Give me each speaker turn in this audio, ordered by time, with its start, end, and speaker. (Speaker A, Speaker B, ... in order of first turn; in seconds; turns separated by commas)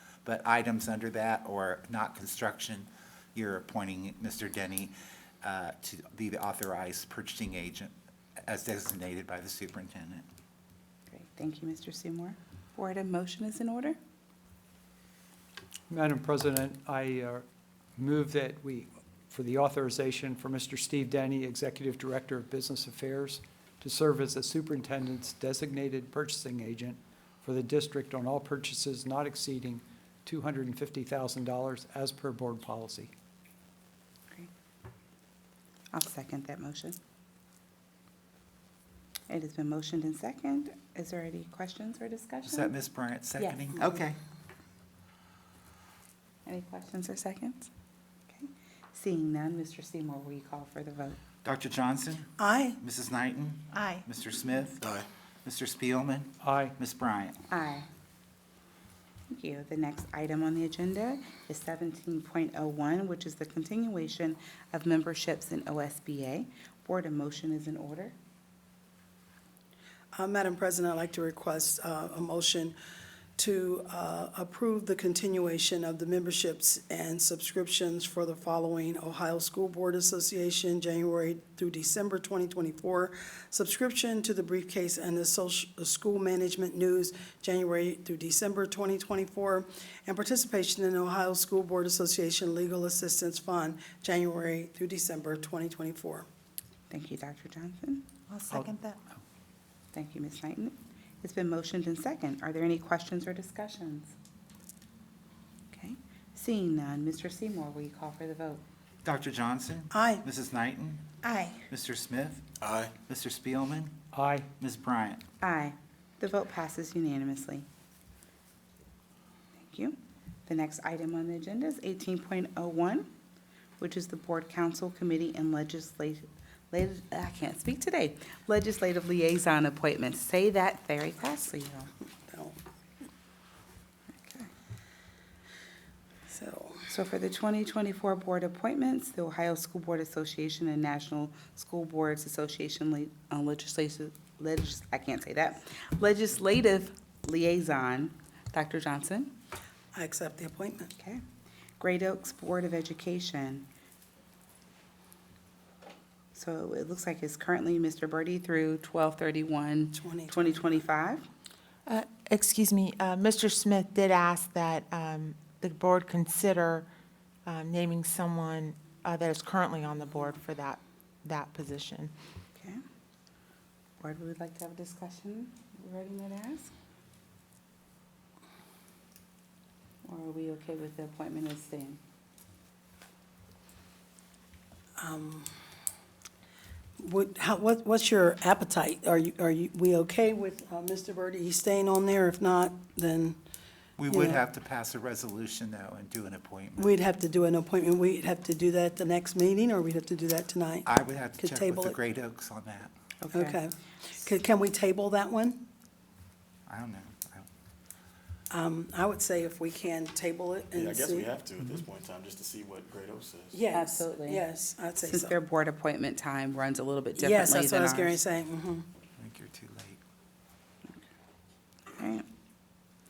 Speaker A: 0.2-7.9, Speaker A: 8.4-10.2, Speaker B: 11.1-14.0, Speaker C: 15.9-17.4, Speaker C: 18.0-33.1, Speaker B: 35.9-37.0, Speaker B: 39.3-42.7, Speaker A: 42.5-44.2, Speaker B: 46.5-47.7, Speaker B: 48.3-51.2, Speaker A: 51.4-54.8, Speaker D: 52.4-52.8, Speaker E: 54.8-55.1, Speaker A: 55.4-57.4, Speaker C: 56.4-56.7, Speaker B: 57.5-57.9, Speaker B: 59.3-68.1, Speaker D: 70.1-72.7, Speaker D: 73.4-96.2, Speaker B: 96.9-98.1, Speaker B: 99.9-104.1, Speaker B: 105.7-108.6, Speaker A: 109.0-111.1, Speaker D: 109.9-110.2, Speaker F: 111.2-111.6, Speaker A: 111.7-112.4, Speaker E: 112.6-112.9, Speaker A: 113.0-114.0, Speaker C: 114.1-114.5, Speaker A: 114.6-115.2, Speaker B: 115.4-117.7, Speaker B: 119.6-120.0, Speaker B: 120.5-123.1, Speaker B: 123.8-131.9, Speaker D: 132.3-132.6, Speaker B: 134.2-134.5, Speaker D: 136.3-136.8, Speaker B: 136.9-149.3, Speaker D: 149.9-150.9, Speaker B: 151.8-153.7, Speaker B: 156.3-161.2, Speaker D: 159.9-160.6, Speaker F: 161.9-166.9, Speaker F: 167.4-172.1, Speaker B: 174.0-176.7, Speaker B: 180.0-182.0, Speaker D: 185.0-185.5, Speaker D: 187.0-193.4, Speaker A: 194.0-196.9, Speaker D: 194.1-194.4, Speaker D: 196.8-200.9, Speaker A: 200.8-202.9, Speaker D: 201.4-202.0, Speaker B: 203.2-203.6, Speaker D: 203.3-205.6, Speaker A: 206.7-207.5, Speaker D: 208.5-211.3, Speaker E: 210.7-213.6, Speaker D: 213.5-215.3, Speaker B: 213.7-214.4, Speaker B: 215.0-218.2, Speaker D: 217.2-218.8, Speaker A: 219.2-220.0, Speaker B: 221.9-222.2